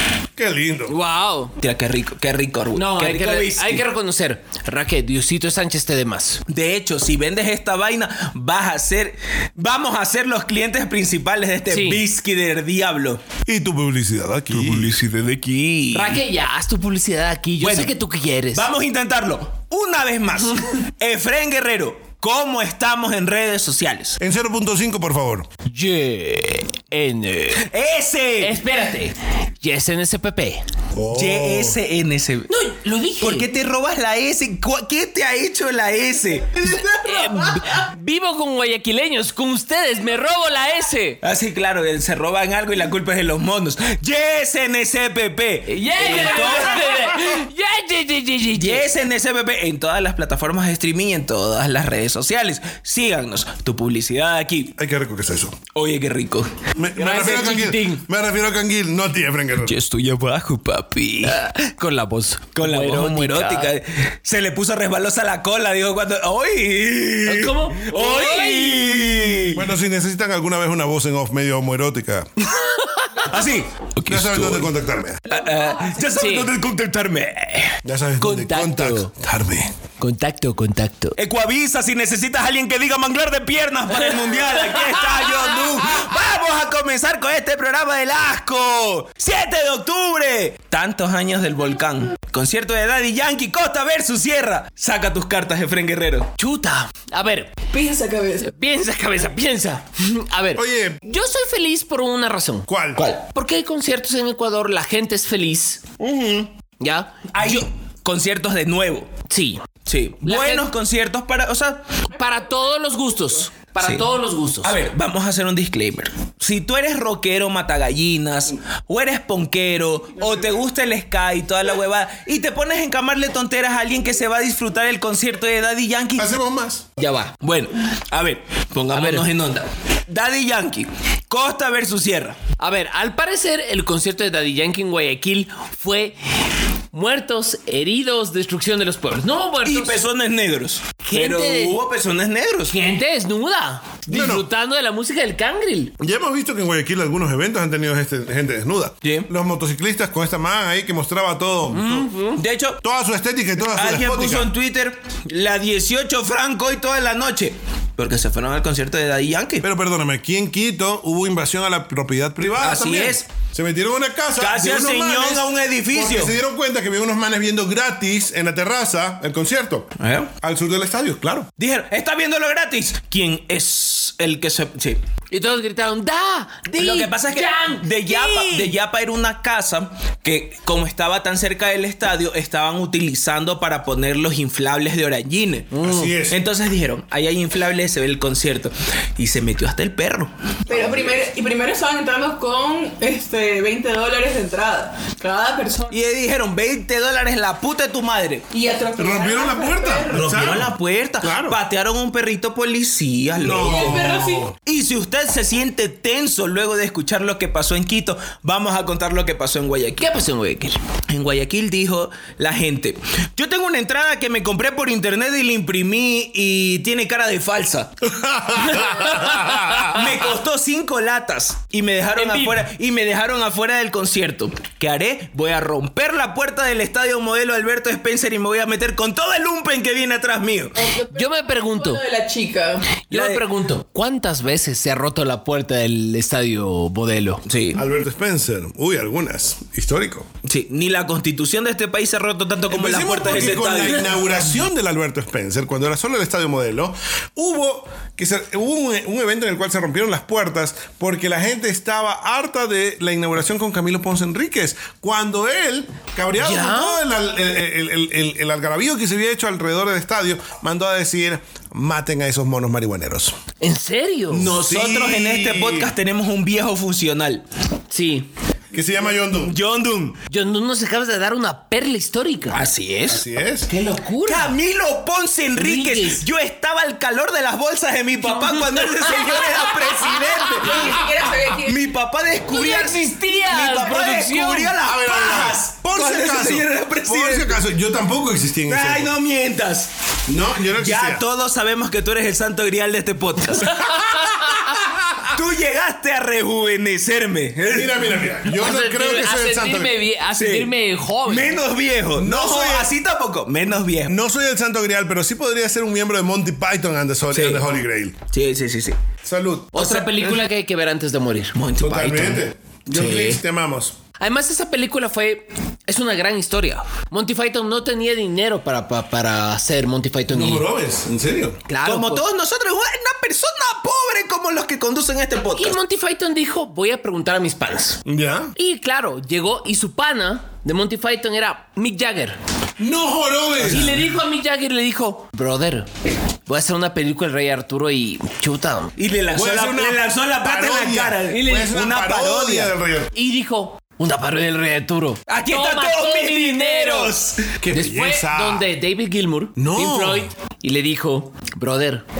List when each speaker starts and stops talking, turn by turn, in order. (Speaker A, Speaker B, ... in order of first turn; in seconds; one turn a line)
Speaker A: 0.4-0.9
Speaker B: 0.9-1.5
Speaker C: 1.6-3.8
Speaker B: 2.8-6.4
Speaker C: 6.5-13.2
Speaker B: 11.7-12.0
Speaker A: 13.5-15.0
Speaker C: 14.5-16.2
Speaker B: 15.9-18.7
Speaker C: 17.6-17.9
Speaker C: 18.5-24.2
Speaker A: 24.2-25.5
Speaker B: 25.7-27.7
Speaker C: 27.6-28.6
Speaker B: 28.4-30.6
Speaker A: 30.9-31.8
Speaker C: 31.1-32.5
Speaker B: 32.5-33.5
Speaker C: 33.2-37.7
Speaker B: 36.9-41.2
Speaker C: 41.2-47.1
Speaker B: 45.7-48.9
Speaker C: 48.5-54.8
Speaker A: 54.8-55.6
Speaker C: 55.7-56.5
Speaker A: 56.8-59.8
Speaker B: 57.0-58.0
Speaker C: 59.6-61.4
Speaker B: 61.2-63.7
Speaker C: 62.5-69.7
Speaker B: 67.3-69.0
Speaker A: 69.5-72.3
Speaker B: 72.5-73.3
Speaker C: 73.2-74.7
Speaker A: 74.1-75.3
Speaker C: 75.2-77.8
Speaker B: 76.0-76.5
Speaker A: 77.8-79.7
Speaker B: 78.2-79.1
Speaker B: 80.0-81.2
Speaker C: 81.2-96.3
Speaker B: 84.3-85.8
Speaker B: 96.4-97.5
Speaker D: 97.7-98.5
Speaker B: 98.4-102.7
Speaker A: 100.5-101.0
Speaker A: 102.7-103.0
Speaker C: 103.0-103.2
Speaker B: 103.2-105.8
Speaker C: 106.0-106.5
Speaker B: 106.8-107.1
Speaker C: 107.3-109.1
Speaker B: 109.3-109.6
Speaker C: 109.9-112.0
Speaker B: 110.2-110.7
Speaker B: 112.1-114.8
Speaker C: 114.6-126.3
Speaker A: 126.2-126.9
Speaker B: 127.0-127.3
Speaker C: 127.4-132.4
Speaker B: 128.9-129.3
Speaker B: 132.6-136.2
Speaker B: 136.9-140.0
Speaker C: 139.7-142.7
Speaker B: 141.0-141.8
Speaker B: 142.7-145.9
Speaker A: 144.1-144.5
Speaker A: 146.0-152.1
Speaker C: 149.0-149.3
Speaker B: 151.7-152.4
Speaker C: 152.4-152.8
Speaker A: 152.8-154.5
Speaker C: 153.7-159.7
Speaker A: 159.6-171.5
Speaker C: 162.6-163.3
Speaker C: 164.4-166.3
Speaker C: 170.0-170.3
Speaker C: 171.6-175.0
Speaker B: 175.3-178.7
Speaker C: 176.8-185.7
Speaker B: 185.7-186.1
Speaker A: 185.8-186.4
Speaker C: 186.3-191.1
Speaker D: 190.7-195.9
Speaker C: 195.9-198.4
Speaker D: 198.5-200.6
Speaker A: 199.0-201.6
Speaker C: 200.1-204.1
Speaker A: 203.4-204.5
Speaker D: 203.5-204.6
Speaker C: 204.7-210.1
Speaker B: 210.0-210.8
Speaker C: 211.1-217.9
Speaker A: 218.0-220.1
Speaker B: 218.6-220.0
Speaker C: 219.8-230.8
Speaker B: 222.2-222.6
Speaker D: 230.8-232.9
Speaker B: 231.1-232.0
Speaker C: 233.1-233.4
Speaker B: 233.1-237.4
Speaker C: 237.5-237.8
Speaker A: 237.7-240.3
Speaker C: 240.4-244.2
Speaker A: 242.7-263.4
Speaker B: 256.4-257.0
Speaker B: 263.6-264.6
Speaker C: 264.3-267.4
Speaker A: 264.4-265.9
Speaker B: 267.9-268.3
Speaker A: 268.7-269.5
Speaker C: 269.4-270.2
Speaker B: 270.3-272.6
Speaker C: 272.5-273.2
Speaker A: 273.1-273.7
Speaker B: 273.7-274.6
Speaker C: 274.2-287.6
Speaker B: 275.6-276.3
Speaker B: 278.3-280.8
Speaker D: 280.4-281.8
Speaker B: 282.5-284.8
Speaker A: 284.8-289.1
Speaker C: 288.7-289.9
Speaker A: 290.3-291.2
Speaker C: 290.8-293.8
Speaker B: 293.6-294.7
Speaker A: 294.0-295.2
Speaker C: 295.3-298.1
Speaker A: 297.7-299.9
Speaker B: 298.5-301.6
Speaker C: 300.3-300.7
Speaker C: 301.2-304.1
Speaker A: 302.2-302.9
Speaker A: 304.1-308.2
Speaker C: 307.3-307.6
Speaker C: 308.3-309.0
Speaker A: 309.2-309.9
Speaker B: 309.7-311.6
Speaker C: 309.8-310.4
Speaker C: 311.6-312.4
Speaker A: 311.8-314.0
Speaker B: 312.9-313.4
Speaker B: 314.2-320.6
Speaker A: 320.3-321.6
Speaker B: 321.7-322.2
Speaker C: 321.9-325.8
Speaker B: 325.6-328.0
Speaker A: 328.1-328.5
Speaker B: 328.6-332.4
Speaker A: 332.8-334.1
Speaker B: 333.6-335.9
Speaker B: 336.5-338.9
Speaker C: 339.0-342.7
Speaker A: 339.3-343.1
Speaker B: 341.3-341.8
Speaker B: 343.1-347.2
Speaker C: 345.3-347.5
Speaker A: 347.6-348.7
Speaker B: 347.7-352.0
Speaker A: 349.6-350.3